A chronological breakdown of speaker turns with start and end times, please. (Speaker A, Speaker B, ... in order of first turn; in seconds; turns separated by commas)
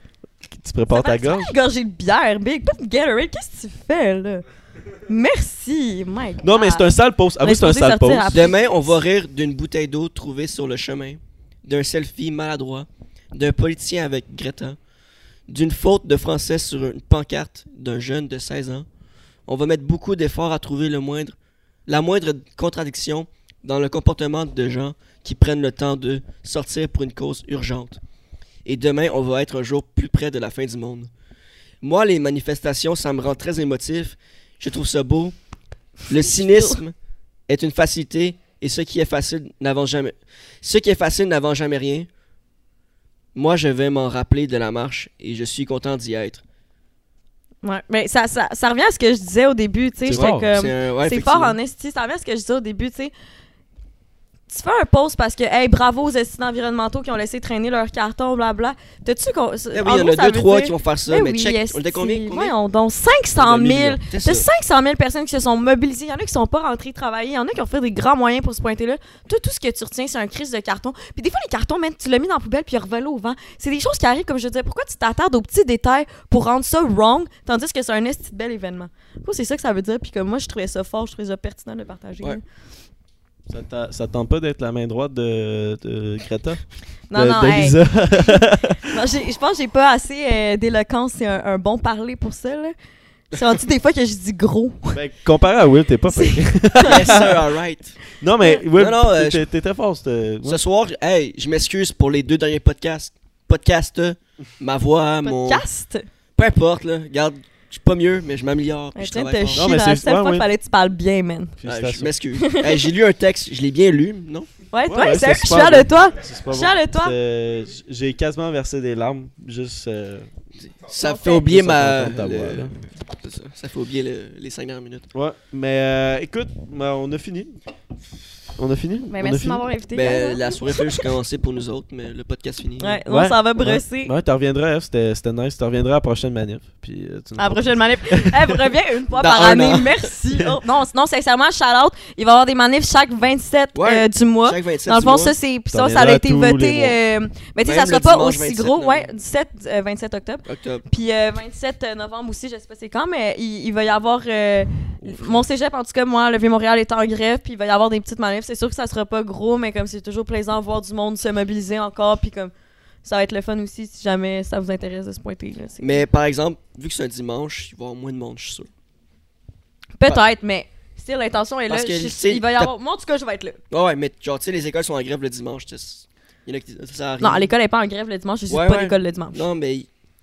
Speaker A: 0.6-1.5, Speaker B: 0.9-4.5, Speaker B: 5.1-6.9, Speaker A: 6.4-8.4, Speaker B: 7.4-8.9, Speaker C: 8.3-14.8, Speaker C: 15.5-18.9, Speaker C: 19.5-21.4, Speaker C: 21.9-28.0, Speaker C: 28.6-31.1, Speaker C: 31.8-35.3, Speaker C: 36.1-36.9, Speaker B: 36.4-36.8, Speaker C: 37.5-42.1, Speaker C: 43.3-46.4, Speaker B: 47.6-53.1, Speaker A: 50.0-50.5, Speaker C: 50.1-51.6, Speaker B: 54.5-82.4, Speaker C: 59.7-62.5, Speaker A: 63.4-64.0, Speaker C: 64.0-64.5, Speaker A: 83.5-86.6, Speaker B: 87.1-92.7, Speaker A: 87.1-88.9, Speaker B: 93.3-95.0, Speaker A: 94.9-97.3, Speaker B: 96.1-96.9, Speaker C: 96.8-98.0, Speaker A: 98.2-100.6, Speaker C: 98.7-99.5, Speaker C: 100.4-105.6, Speaker B: 105.2-106.0, Speaker C: 106.3-109.7, Speaker B: 109.0-111.5, Speaker A: 109.5-110.5, Speaker A: 111.6-112.1, Speaker C: 111.6-114.5, Speaker B: 112.3-112.9, Speaker B: 114.7-117.1, Speaker A: 114.9-120.3, Speaker C: 120.6-125.1, Speaker B: 121.0-121.5, Speaker A: 121.5-122.7, Speaker A: 125.1-127.6, Speaker A: 128.6-129.6, Speaker B: 129.1-131.1, Speaker C: 129.9-133.0, Speaker B: 132.8-134.1, Speaker A: 133.1-138.6, Speaker B: 137.4-162.5, Speaker C: 139.2-140.1, Speaker C: 143.7-145.3, Speaker A: 145.7-146.9, Speaker C: 147.6-149.1, Speaker C: 150.4-150.8, Speaker A: 155.0-155.4, Speaker B: 163.0-166.0, Speaker C: 165.8-168.7, Speaker B: 170.0-173.6, Speaker C: 171.7-172.7, Speaker C: 173.7-177.5, Speaker B: 177.2-179.4, Speaker C: 178.5-179.9